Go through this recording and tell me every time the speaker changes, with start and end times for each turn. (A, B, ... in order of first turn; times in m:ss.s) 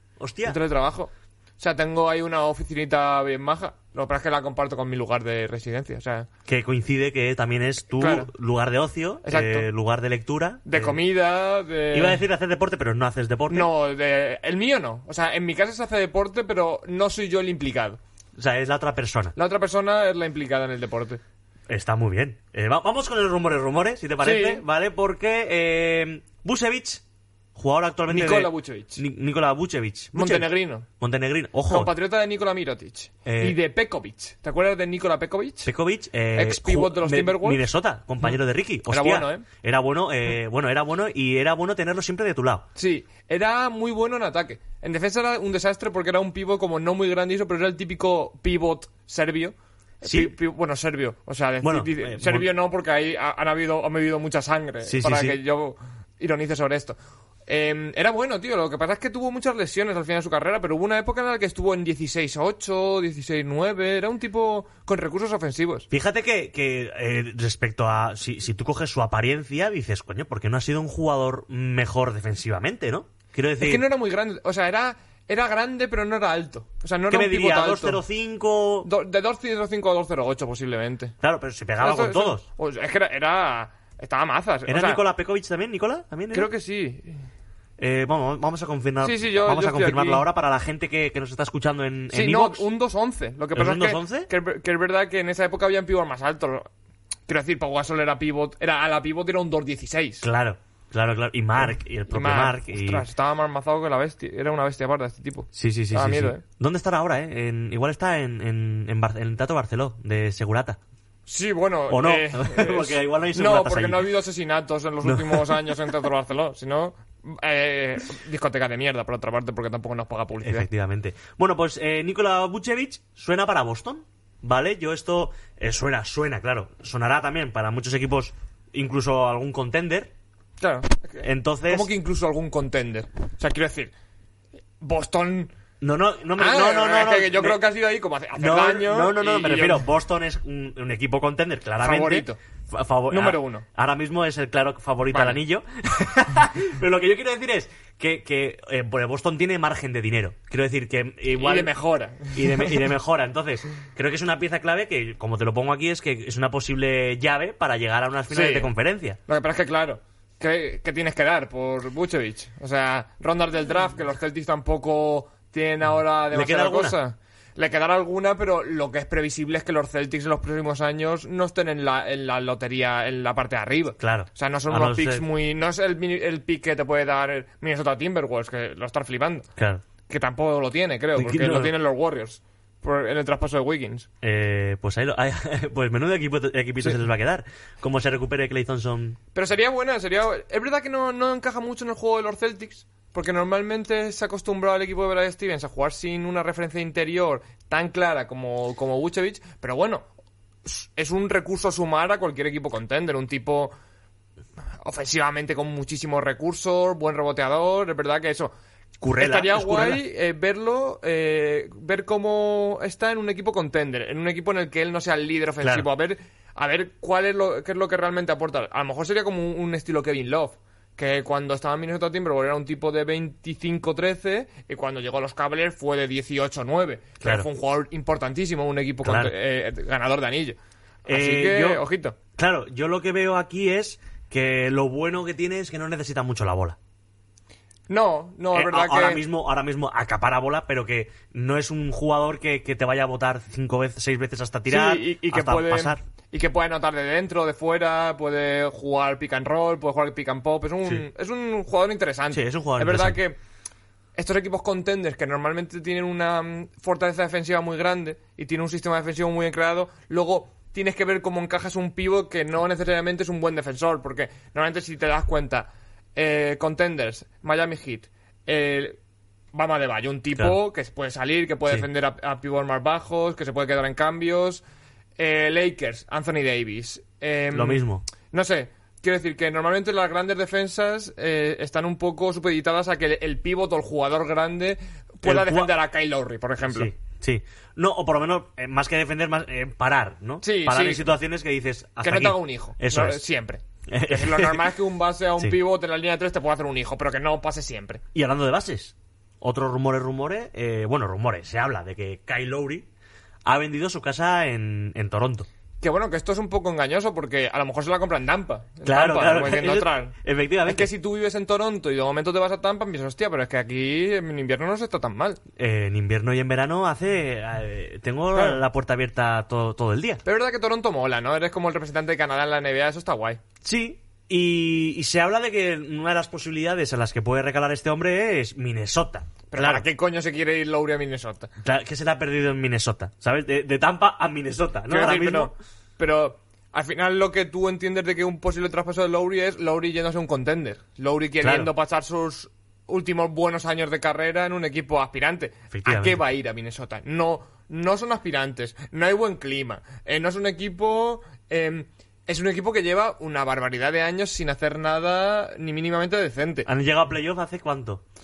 0:00.2-0:00.6 A
0:00.4-0:06.3 B
0:06.5-0:11.0 A
0:08.0-0:08.3 B
0:09.2-0:09.7 B
0:10.6-0:12.2 B
0:11.9-0:13.7 A
0:13.5-0:18.0 B
0:18.4-0:19.3 A
0:19.4-0:21.2 B
0:21.7-0:27.0 A
0:24.2-0:24.6 B
0:27.5-0:31.9 A
0:28.1-0:29.0 B
0:30.1-0:30.8 B
0:31.6-0:35.7 B
0:33.2-0:33.6 A
0:35.6-0:42.7 A
0:36.3-0:37.6 B
0:38.9-0:39.4 B
0:42.8-0:57.0 B
0:50.0-0:50.3 A
0:51.6-0:52.5 A
0:54.8-0:55.4 A
0:57.5-1:05.9 B
1:05.9-1:13.9 A
1:13.6-1:18.0 B
1:17.1-1:18.9 A
1:18.8-1:21.1 B
1:21.2-1:22.4 A
1:21.8-1:25.0 B
1:24.7-1:26.5 A
1:26.3-1:27.2 B
1:27.8-1:32.7 A
1:29.0-1:30.2 B
1:32.1-1:36.7 B
1:33.5-1:34.3 A
1:37.3-1:40.2 B
1:40.2-1:43.0 A
1:42.1-1:46.4 B
1:45.5-1:50.8 A
1:51.3-2:00.7 B
1:51.9-1:54.1 A
1:55.0-1:55.6 A
2:00.4-2:10.1 A
2:10.6-2:13.9 B
2:11.2-2:11.9 A
2:14.8-2:15.5 B
2:15.8-2:17.6 A
2:16.4-2:19.8 B
2:18.4-2:31.7 A
2:21.8-2:22.4 B
2:23.1-2:23.6 B
2:25.1-2:25.4 B
2:31.3-2:32.8 B
2:32.3-2:39.2 A
2:38.3-2:38.7 B
2:39.3-2:59.5 B
2:46.3-2:47.0 A
2:54.0-2:55.2 A
2:59.6-2:59.8 A
3:00.1-3:04.1 B
3:01.1-3:01.7 A
3:04.2-3:09.2 A
3:09.3-3:20.0 B
3:20.6-3:23.7 B
3:24.8-3:28.5 B
3:29.0-3:30.0 A
3:29.2-3:52.2 B
3:47.2-3:47.5 A
3:49.0-3:49.3 A
3:51.1-3:51.8 A
3:52.4-3:56.8 A
3:57.9-3:59.2 B
3:58.5-4:06.0 A
4:04.7-4:13.4 B
4:12.3-4:13.2 A
4:14.2-4:29.0 B
4:29.5-4:34.6 B
4:35.2-4:46.9 B
4:37.5-4:38.0 A
4:45.2-4:45.7 A
4:46.7-4:53.2 A
4:50.4-4:51.1 B
4:52.0-4:58.0 B
4:53.9-4:54.7 A
4:58.1-5:02.9 A
5:03.4-5:05.5 A
5:05.8-5:10.1 B
5:08.8-5:10.9 A
5:10.6-5:15.4 B
5:15.6-5:20.2 A
5:18.3-5:18.6 B
5:20.2-5:23.4 B
5:23.6-5:29.8 A
5:29.5-5:31.5 B
5:31.6-5:35.5 A
5:34.9-5:56.7 B
5:41.4-5:41.7 A
5:45.7-5:46.2 A
5:56.6-5:58.0 A